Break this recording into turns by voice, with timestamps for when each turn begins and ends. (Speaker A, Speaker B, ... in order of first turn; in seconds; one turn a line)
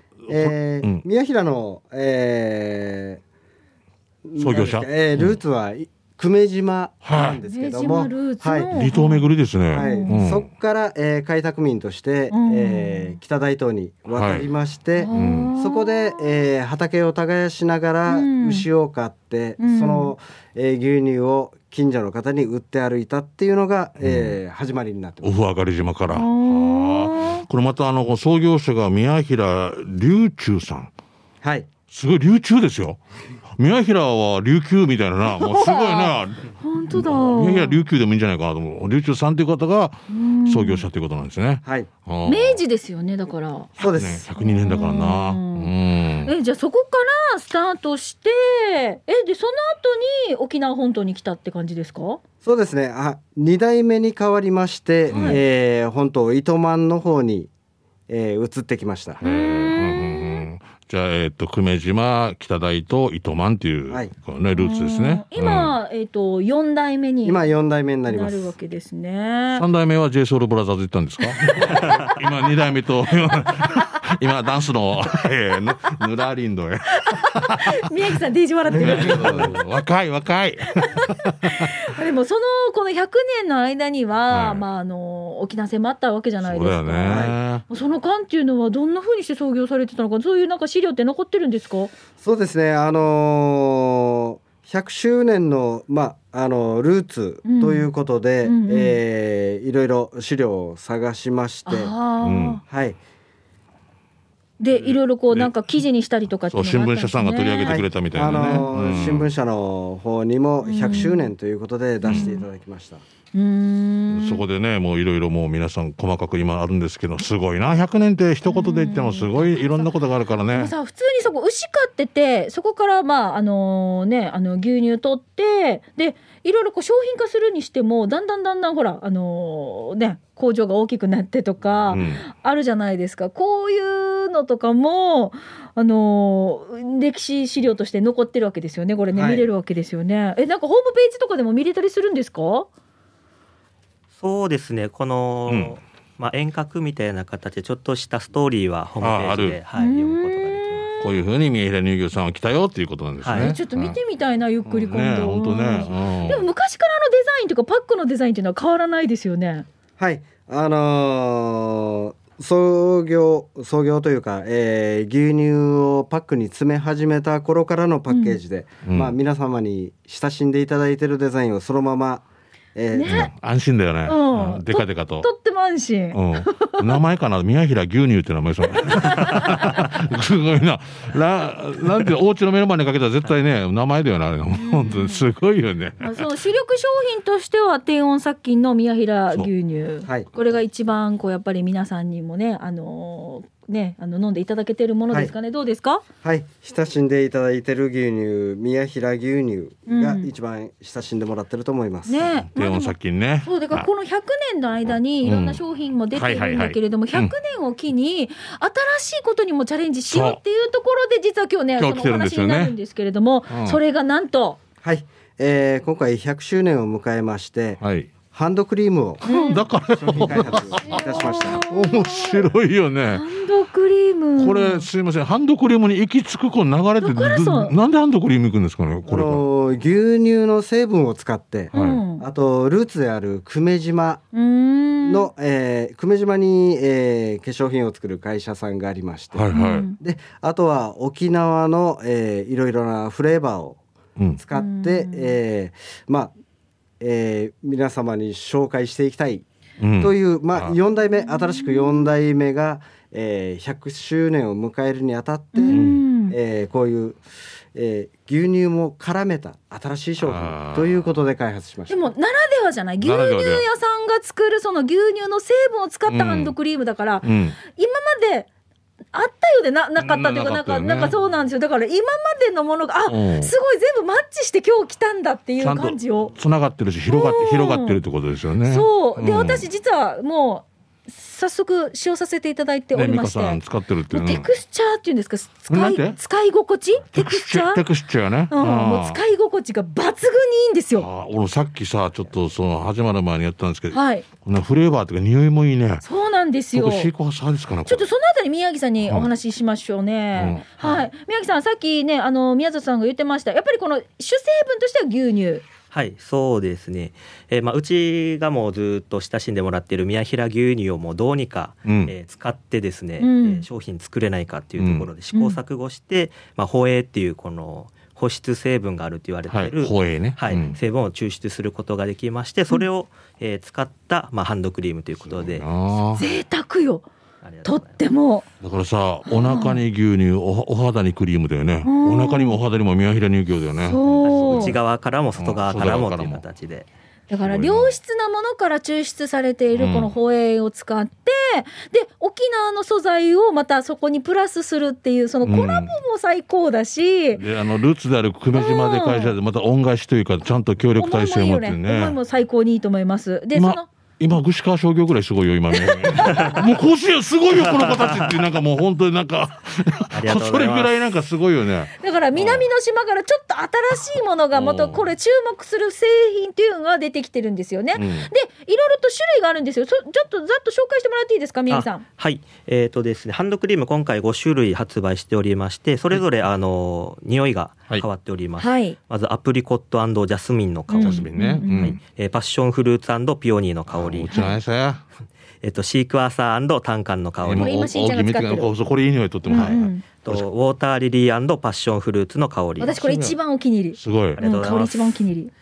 Speaker A: 0.3-1.1
Speaker B: 0.3-3.2
Speaker B: 4.3-8.8
Speaker A: 4.4-5.4
Speaker A: 7.0-7.4
Speaker C: 7.5-10.2
Speaker A: 8.7-10.5
Speaker B: 9.7-25.3
Speaker C: 12.3-13.2
Speaker A: 14.1-14.5
Speaker C: 15.0-16.2
Speaker A: 15.1-15.5
Speaker C: 18.1-18.7
Speaker C: 19.6-20.1
Speaker A: 24.0-24.4
Speaker A: 25.2-30.9
Speaker C: 26.1-27.4
Speaker B: 31.4-31.7
Speaker A: 31.9-33.0
Speaker A: 33.6-42.6
Speaker C: 35.3-37.9
Speaker C: 40.1-40.9
Speaker B: 41.6-41.9
Speaker C: 42.2-43.7
Speaker B: 43.8-44.2
Speaker A: 43.9-46.3
Speaker C: 44.4-45.7
Speaker C: 46.2-52.2
Speaker B: 52.4-57.5
Speaker C: 55.1-55.4
Speaker A: 55.1-55.4
Speaker B: 58.1-59.2
Speaker C: 59.2-60.5
Speaker A: 59.2-65.7
Speaker C: 64.5-67.5
Speaker B: 67.2-68.5
Speaker C: 68.1-69.7
Speaker A: 69.5-77.8
Speaker C: 71.3-72.2
Speaker C: 73.3-73.9
Speaker C: 77.1-79.7
Speaker A: 78.7-81.8
Speaker B: 78.7-79.5
Speaker C: 80.8-91.9
Speaker A: 84.3-84.6
Speaker A: 86.4-87.6
Speaker B: 87.0-87.4
Speaker B: 92.2-102.0
Speaker C: 97.5-97.9
Speaker C: 98.4-99.0
Speaker C: 101.7-102.6
Speaker A: 102.2-102.6
Speaker B: 102.7-103.0
Speaker C: 104.6-108.7
Speaker A: 104.7-105.5
Speaker A: 106.5-109.3
Speaker B: 107.7-113.0
Speaker C: 110.6-111.3
Speaker A: 112.0-112.3
Speaker C: 112.1-112.5
Speaker C: 113.3-114.4
Speaker A: 114.1-120.7
Speaker C: 118.5-119.9
Speaker C: 120.5-142.7
Speaker A: 131.9-132.3
Speaker B: 139.1-139.4
Speaker D: 144.2-150.9
Speaker A: 145.5-145.8
Speaker A: 149.0-149.6
Speaker C: 149.8-151.0
Speaker A: 151.0-154.0
Speaker D: 153.2-153.6
Speaker C: 153.4-159.7
Speaker A: 154.7-156.4
Speaker B: 160.0-173.3
Speaker C: 168.1-168.4
Speaker A: 168.8-169.2
Speaker C: 172.9-173.3
Speaker A: 173.1-175.3
Speaker C: 174.1-177.0
Speaker A: 176.1-186.3
Speaker C: 178.8-179.9
Speaker C: 184.5-185.2
Speaker C: 186.0-196.0
Speaker B: 190.1-190.3
Speaker B: 196.2-202.3
Speaker C: 199.9-200.3
Speaker C: 202.1-214.6
Speaker A: 202.5-203.9
Speaker A: 205.2-205.6
Speaker A: 206.1-207.3
Speaker A: 210.1-210.4
Speaker A: 211.8-212.8
Speaker A: 213.5-213.8
Speaker B: 214.8-217.8
Speaker A: 217.8-218.1
Speaker B: 218.3-219.2
Speaker C: 219.2-219.6
Speaker A: 219.2-223.2
Speaker B: 219.8-221.6
Speaker C: 220.8-222.5
Speaker C: 223.1-224.9
Speaker A: 224.4-229.4
Speaker C: 227.0-227.7
Speaker B: 229.1-234.2
Speaker A: 231.7-232.0
Speaker C: 231.7-232.2
Speaker C: 234.3-235.3
Speaker B: 235.1-243.8
Speaker A: 239.3-239.9
Speaker C: 239.5-240.0
Speaker B: 244.4-246.3
Speaker C: 244.5-245.4
Speaker B: 247.0-249.4
Speaker A: 249.8-250.8
Speaker B: 250.0-257.2
Speaker C: 251.3-251.9
Speaker C: 255.5-256.4
Speaker A: 255.7-256.0
Speaker B: 257.7-262.1
Speaker A: 260.2-261.1
Speaker C: 261.9-268.5
Speaker A: 263.0-263.7
Speaker A: 266.1-266.6
Speaker A: 267.2-267.6
Speaker C: 269.1-276.3
Speaker A: 270.0-271.2
Speaker A: 273.1-273.5
Speaker A: 275.6-279.7
Speaker C: 277.1-278.0
Speaker C: 278.6-283.6
Speaker A: 282.9-284.5
Speaker C: 284.1-287.8
Speaker A: 285.7-286.2
Speaker A: 287.1-289.2
Speaker C: 288.5-291.1
Speaker A: 291.0-296.0
Speaker C: 293.9-294.2
Speaker C: 296.0-297.1
Speaker A: 296.7-298.1
Speaker C: 297.9-305.6
Speaker A: 299.0-299.3
Speaker A: 300.4-300.7
Speaker D: 305.9-325.7
Speaker A: 311.9-312.1
Speaker C: 313.2-313.6
Speaker A: 314.8-315.1
Speaker C: 315.3-315.6
Speaker A: 319.5-320.8
Speaker A: 325.2-326.2
Speaker C: 326.2-327.1
Speaker D: 327.4-328.0
Speaker C: 327.6-328.4
Speaker A: 328.6-334.8
Speaker C: 329.3-329.8
Speaker C: 331.9-332.6
Speaker C: 333.8-334.8
Speaker D: 334.2-336.9
Speaker A: 335.4-336.4
Speaker C: 337.3-347.4
Speaker A: 337.4-337.9
Speaker A: 339.7-340.1
Speaker A: 345.4-346.0
Speaker A: 347.4-352.2
Speaker C: 348.5-349.4
Speaker C: 351.0-353.9
Speaker A: 353.5-362.7
Speaker C: 355.7-356.6
Speaker D: 356.2-356.6
Speaker D: 357.6-358.3
Speaker D: 360.1-361.0
Speaker C: 362.0-372.1
Speaker A: 364.5-365.1
Speaker A: 367.9-368.3
Speaker D: 371.7-384.4
Speaker C: 378.6-379.0
Speaker C: 380.9-381.9
Speaker A: 381.0-382.0
Speaker A: 383.9-385.0
Speaker D: 385.6-387.8
Speaker A: 387.4-390.4
Speaker C: 387.6-388.7
Speaker C: 389.5-390.1
Speaker D: 389.5-393.0
Speaker C: 392.8-395.5
Speaker A: 392.9-393.4
Speaker A: 394.0-394.4
Speaker D: 394.4-395.2